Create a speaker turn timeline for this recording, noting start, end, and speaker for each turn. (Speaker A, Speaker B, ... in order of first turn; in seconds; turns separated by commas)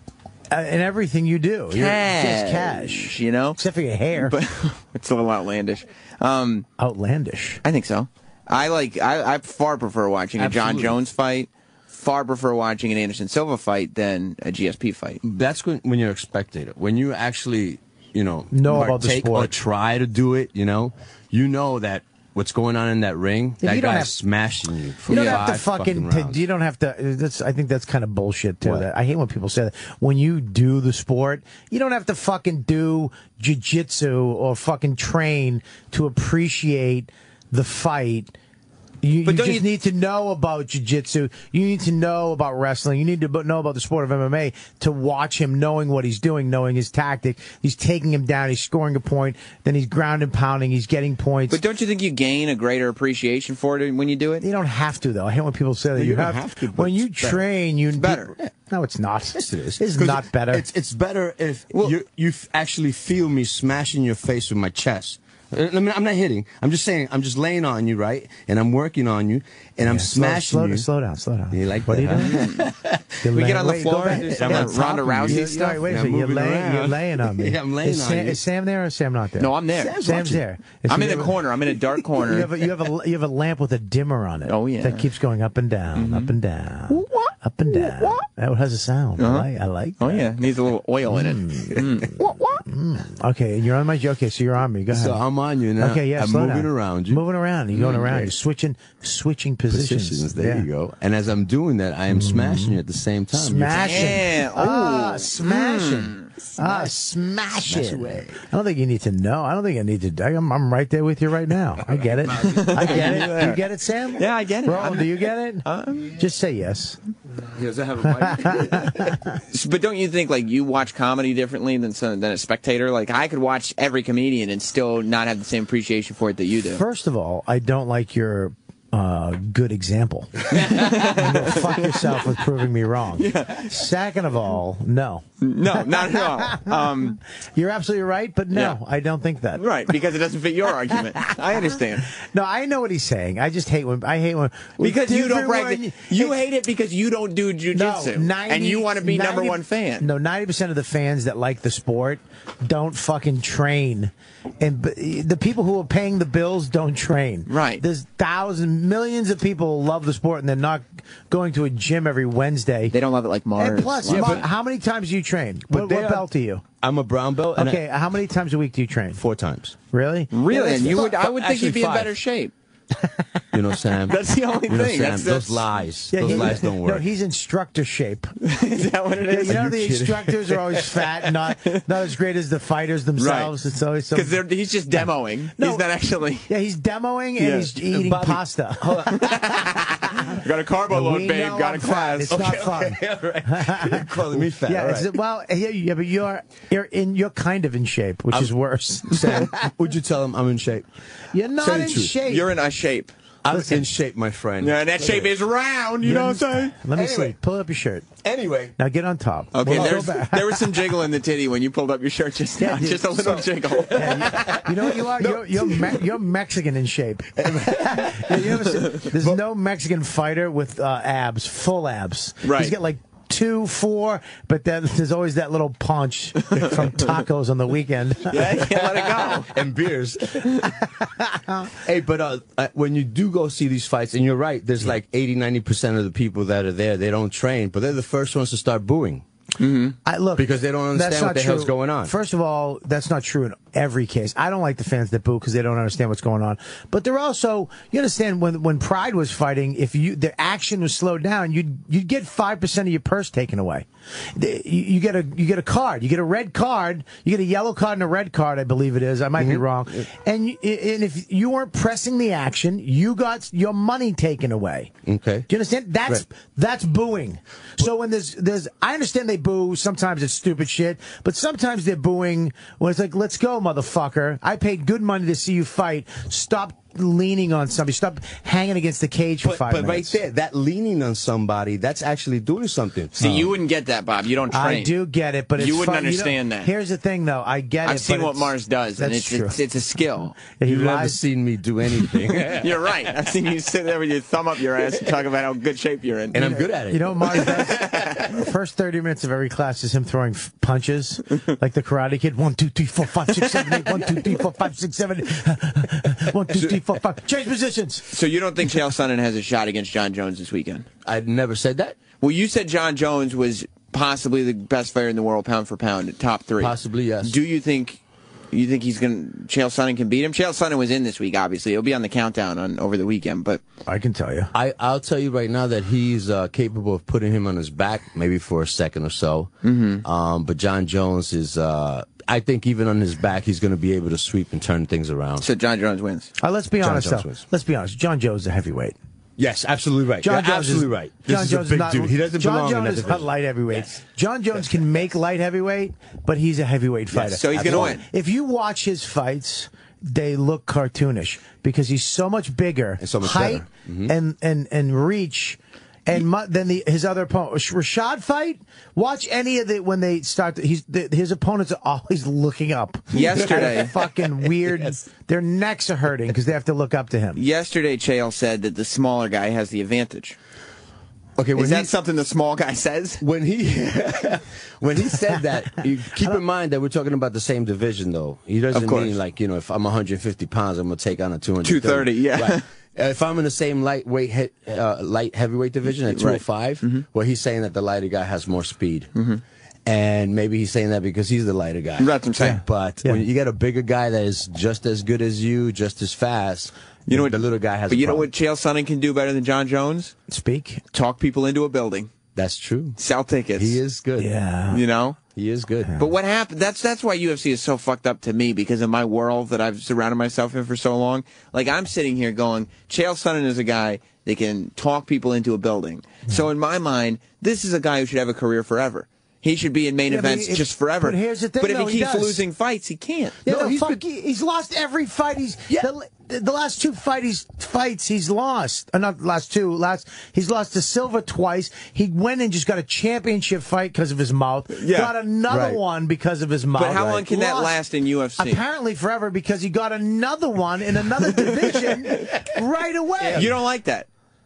Speaker A: 0.5-4.3, Speaker B: 1.7-3.6, Speaker B: 4.1-6.7, Speaker A: 6.8-7.6, Speaker B: 7.6-15.2, Speaker C: 10.4-11.0, Speaker C: 15.2-26.4, Speaker A: 18.5-19.5, Speaker A: 23.6-24.1, Speaker A: 25.1-38.3, Speaker B: 25.1-25.4, Speaker A: 39.0-51.6, Speaker B: 39.2-39.6, Speaker B: 51.5-54.4, Speaker A: 54.4-60.6, Speaker C: 55.9-57.5, Speaker B: 58.0-58.3, Speaker C: 59.3-70.9, Speaker B: 61.7-62.0, Speaker A: 69.8-72.4, Speaker C: 71.5-73.2, Speaker B: 72.3-72.6, Speaker A: 73.2-81.4, Speaker B: 73.3-75.8, Speaker C: 74.1-78.4, Speaker B: 79.4-80.0, Speaker C: 79.7-80.4, Speaker B: 80.9-82.5, Speaker C: 81.9-82.2, Speaker A: 82.2-90.3, Speaker B: 84.5-85.0, Speaker B: 85.9-86.3, Speaker B: 86.9-88.2, Speaker B: 89.2-89.5, Speaker B: 90.0-92.6, Speaker A: 91.1-91.8, Speaker A: 92.6-95.2, Speaker C: 94.9-97.2, Speaker A: 95.8-100.7, Speaker C: 97.8-98.3, Speaker C: 99.7-104.2, Speaker A: 102.1-102.8, Speaker A: 103.3-115.6, Speaker B: 103.8-106.3, Speaker C: 106.6-106.9, Speaker C: 107.6-108.4, Speaker C: 111.7-113.5, Speaker B: 112.3-113.6, Speaker B: 114.2-116.1, Speaker A: 116.2-117.0, Speaker C: 117.3-119.1, Speaker A: 118.0-119.4, Speaker B: 119.5-126.8, Speaker A: 126.7-139.6, Speaker B: 130.5-132.3, Speaker B: 133.2-133.8, Speaker B: 135.4-137.2, Speaker B: 139.6-142.1, Speaker A: 140.9-141.3, Speaker A: 142.1-146.3, Speaker B: 144.8-150.1, Speaker A: 147.7-162.9, Speaker B: 157.5-157.8, Speaker B: 162.9-164.4, Speaker A: 163.6-166.6, Speaker C: 164.1-164.5, Speaker C: 165.7-166.3, Speaker C: 166.8-167.8, Speaker A: 167.5-169.2, Speaker C: 169.2-169.8, Speaker A: 169.9-171.0, Speaker B: 170.3-172.5, Speaker C: 170.5-172.1, Speaker C: 173.5-177.1, Speaker B: 174.1-175.7, Speaker A: 176.1-178.3, Speaker B: 176.2-176.5, Speaker B: 178.4-180.0, Speaker A: 179.3-184.4, Speaker C: 179.4-180.3, Speaker B: 180.5-181.8, Speaker B: 183.2-183.5, Speaker B: 184.1-186.5, Speaker A: 184.9-185.8, Speaker A: 186.5-189.3, Speaker B: 187.4-187.7, Speaker C: 187.8-189.4, Speaker B: 189.2-192.7, Speaker A: 190.9-199.7, Speaker C: 192.3-195.1, Speaker C: 199.1-200.8, Speaker A: 201.3-202.4, Speaker C: 201.6-202.1, Speaker B: 202.2-203.1, Speaker C: 203.4-205.3, Speaker A: 203.5-203.8, Speaker B: 204.6-206.7, Speaker A: 206.0-208.1, Speaker C: 206.9-207.3, Speaker C: 208.2-208.7, Speaker A: 208.8-210.8, Speaker B: 209.5-214.7, Speaker C: 209.7-209.9, Speaker A: 212.6-213.3, Speaker C: 213.1-216.0, Speaker A: 213.9-228.4, Speaker C: 217.3-219.3, Speaker B: 222.4-222.7, Speaker B: 228.3-229.5, Speaker C: 228.3-230.7, Speaker A: 230.9-231.7, Speaker C: 231.8-239.2, Speaker B: 239.6-239.9, Speaker A: 240.0-264.9, Speaker C: 240.3-242.1, Speaker C: 259.4-260.1, Speaker C: 265.0-265.5, Speaker A: 265.5-280.2, Speaker C: 279.4-283.5, Speaker B: 283.1-284.9, Speaker A: 284.5-289.6, Speaker B: 285.6-286.7, Speaker B: 287.8-290.4, Speaker A: 290.4-291.2, Speaker C: 290.6-293.1, Speaker B: 292.4-296.6, Speaker C: 296.3-298.3, Speaker A: 296.9-308.1, Speaker B: 297.3-298.2, Speaker B: 308.1-310.9, Speaker C: 311.0-312.0, Speaker B: 312.2-318.0, Speaker C: 316.6-317.4, Speaker B: 318.5-323.6, Speaker A: 323.9-324.5, Speaker C: 324.5-329.5, Speaker B: 329.6-330.0, Speaker C: 330.0-335.5, Speaker B: 335.4-336.3, Speaker A: 336.4-338.9, Speaker C: 336.8-337.4, Speaker C: 339.4-343.9, Speaker A: 340.2-367.4, Speaker C: 347.1-348.0, Speaker B: 347.4-348.0, Speaker C: 353.0-354.1, Speaker B: 363.1-363.9, Speaker C: 363.1-363.9, Speaker C: 364.4-364.9, Speaker B: 367.4-370.4, Speaker C: 371.4-371.9, Speaker B: 371.6-373.2, Speaker C: 373.2-389.1, Speaker B: 378.7-379.1, Speaker B: 381.6-382.6, Speaker B: 386.1-387.0, Speaker B: 389.1-389.4, Speaker C: 389.9-398.3, Speaker B: 392.0-392.6, Speaker A: 392.4-393.2, Speaker B: 397.1-400.1, Speaker A: 400.3-400.8, Speaker B: 400.9-402.1, Speaker C: 402.4-403.0, Speaker B: 403.0-403.8, Speaker C: 403.5-404.3, Speaker A: 404.2-404.8, Speaker B: 404.7-405.2, Speaker C: 405.3-405.9, Speaker B: 406.0-423.4, Speaker A: 420.1-422.4, Speaker A: 423.4-437.8, Speaker C: 423.4-424.0, Speaker B: 434.7-435.1, Speaker C: 435.5-435.8, Speaker B: 436.7-438.6, Speaker A: 438.4-443.5, Speaker B: 441.5-442.4, Speaker C: 443.2-443.5, Speaker B: 443.3-444.1